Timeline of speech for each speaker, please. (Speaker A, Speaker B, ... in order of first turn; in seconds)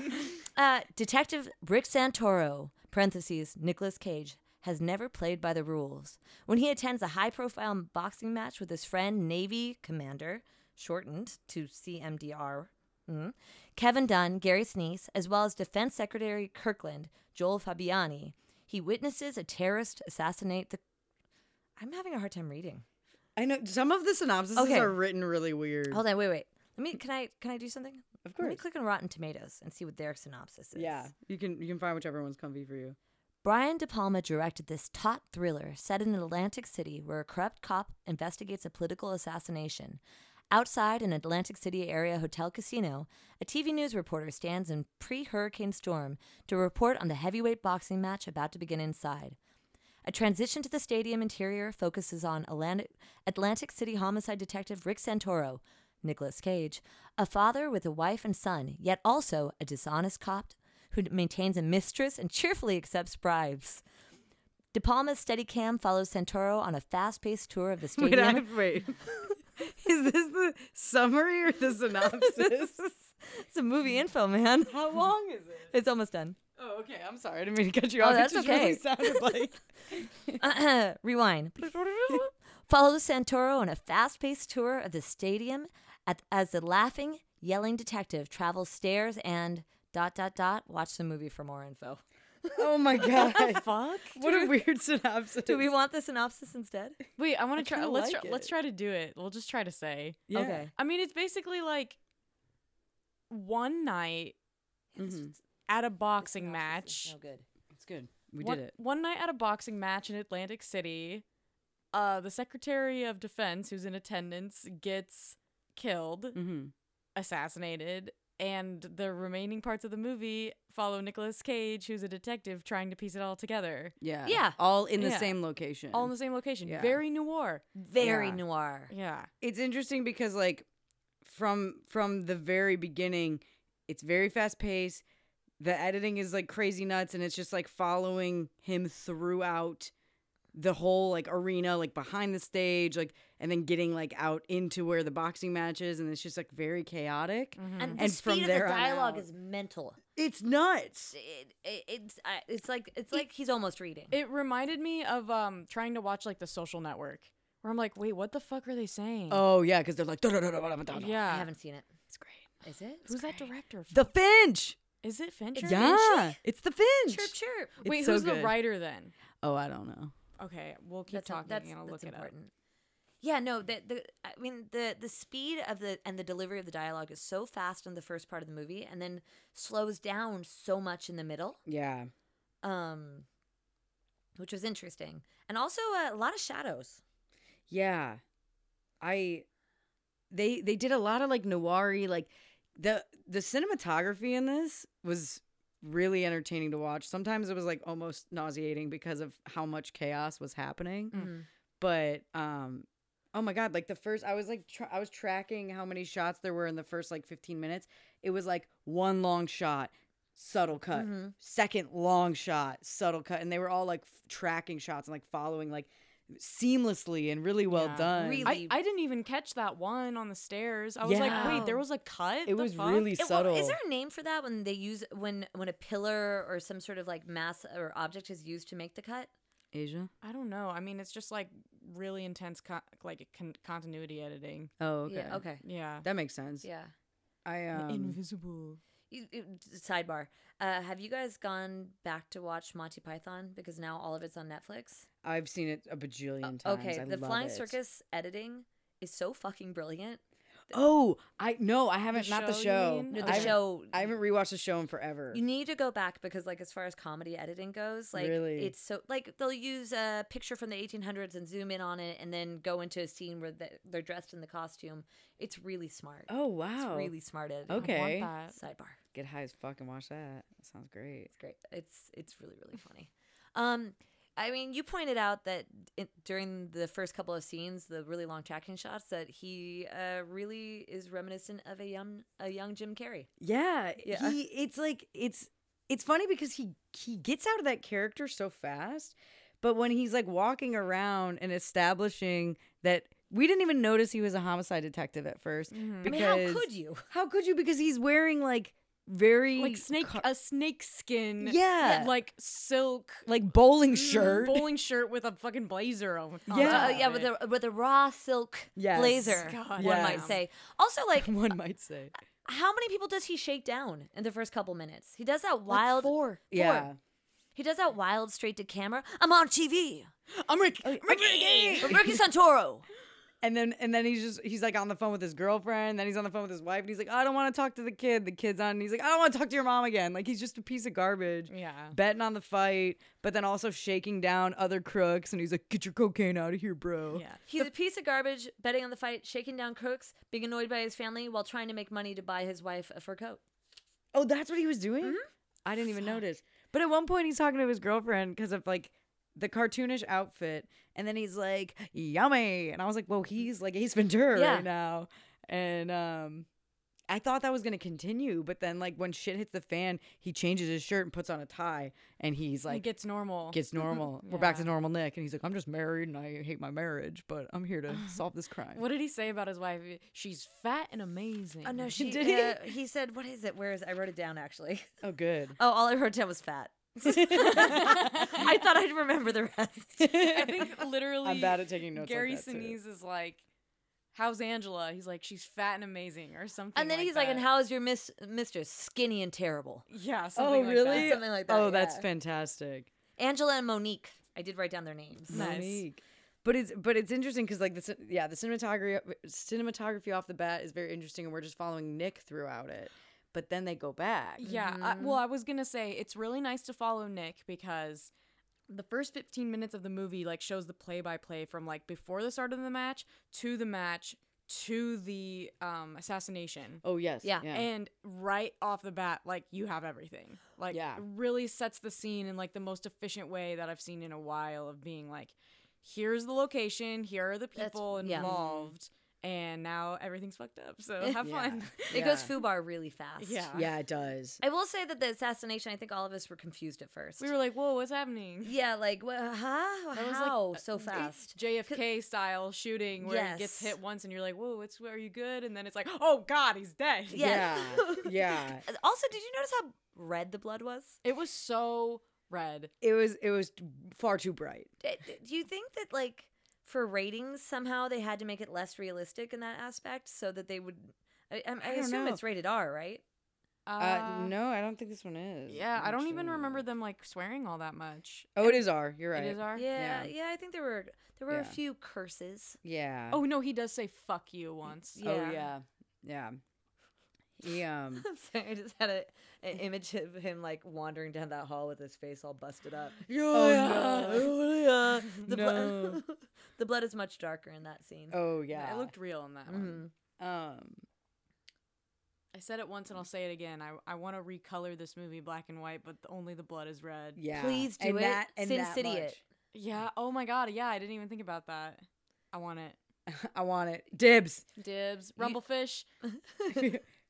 Speaker A: 0.6-20.8, 21.8-22.9, 24.6-25.0, 25.9-31.1, 33.4-40.0, 40.5-49.4, 50.0-63.8, 64.7-68.5, 72.0-75.1, 75.7-76.4, 78.0-79.1, 80.4-93.5, 95.5-97.0, 100.3-100.7, 105.0-105.3, 106.2-107.5, 124.3-124.6, 127.8-128.9, 147.8-150.0, 151.1-154.2, 161.2-161.9, 162.6-163.4, 165.6-166.4, 167.1-167.8, 171.1-172.5, 173.2-181.6, 182.6-183.3, 184.4-187.0, 201.1-201.5, 210.9-211.3, 218.2-218.7, 221.2-221.8, 223.2-229.3, 235.1-235.6, 236.6-236.9, 239.1-245.1, 246.4-250.2, 253.1-254.1, 255.3-267.9, 268.5-269.0, 271.4-283.3, 284.0-284.4, 296.1-297.1, 301.8-302.1, 306.5-311.4, 312.4-316.9, 317.6-320.1, 321.8-322.9, 337.5-343.4, 345.0-345.3, 354.3-354.7, 371.6-374.9, 375.6-380.2, 386.8-389.9, 390.9-392.1, 393.2-395.4, 404.4-405.2, 427.6-428.3, 431.9-433.5, 434.4-437.3, 438.4-441.8, 443.0-443.8, 447.1-448.1, 448.6-451.0, 454.8-463.0, 469.5-472.6, 475.0-475.4, 478.0-488.2, 489.5-489.9, 497.3-499.2, 506.1-506.6
Speaker B: 23.4-26.0, 28.2-28.6, 30.8-33.0, 67.9-69.0, 69.6-72.8, 74.7-75.7, 76.6-80.4, 92.6-95.7, 97.6-98.5, 100.3-100.7, 105.0-105.3, 107.7-108.7, 116.3-116.7, 124.0-126.1, 126.7-127.0, 128.0-128.4, 129.4-130.7, 131.2-135.0, 135.6-139.9, 140.5-149.3, 150.2-151.2, 159.3-161.2, 162.1-162.5, 163.9-164.8, 165.6-168.6, 169.4-170.1, 181.7-182.1, 187.7-188.2, 189.0-189.4, 190.3-201.2, 201.8-218.6, 221.0-221.7, 222.4-223.8, 229.7-230.1, 234.8-235.4, 236.0-236.7, 237.4-238.2, 245.2-247.8, 250.7-255.4, 258.1-258.7, 266.3-267.1, 267.7-268.3, 269.1-271.3, 283.4-300.2, 301.4-302.1, 303.3-304.7, 306.5-307.1, 308.8-310.4, 311.2-312.1, 316.5-317.0, 320.8-322.2, 323.4-337.7, 344.1-356.5, 357.1-362.9, 363.5-368.8, 372.0-372.7, 375.0-375.6, 377.0-378.1, 380.0-380.7, 381.2-382.8, 390.4-392.9, 395.3-404.4, 416.8-417.7, 420.7-421.0, 428.1-428.7, 431.2-432.3, 433.5-434.4, 447.1-448.6, 452.8-454.7, 461.6-462.2, 463.8-466.6, 468.4-470.1, 471.3-471.6, 472.6-473.2, 475.0-476.4, 477.4-478.1, 483.1-484.4, 485.2-486.0, 488.1-488.9, 490.2-490.8, 497.2-499.2, 503.1-504.5, 506.6-506.8
Speaker C: 93.3-94.5, 97.2-102.0, 103.3-104.3, 105.7-107.1, 108.4-111.2, 111.9-116.4, 117.2-124.0, 125.0-125.4, 125.9-127.6, 128.9-129.3, 147.6-148.0, 154.1-159.4, 160.9-161.5, 163.1-164.1, 165.0-166.0, 167.8-169.2, 170.4-172.3, 217.7-223.1, 230.2-234.7, 235.6-236.1, 237.7-238.8, 252.1-253.6, 267.8-268.6, 295.7-296.2, 299.6-303.3, 303.9-307.3, 309.3-310.4, 315.7-316.4, 320.3-322.0, 331.5-332.0, 337.1-337.4, 362.7-364.7, 368.7-371.9, 380.2-383.4, 384.1-387.5, 389.9-391.2, 395.3-395.8, 404.4-408.1, 408.7-416.8, 417.5-432.1, 433.2-433.7, 437.2-438.5, 439.9-447.5, 451.0-452.7, 463.7-464.3, 465.5-468.4, 469.1-469.7, 473.1-475.0, 488.5-489.8, 492.3-497.2, 499.5-502.8, 504.6-505.9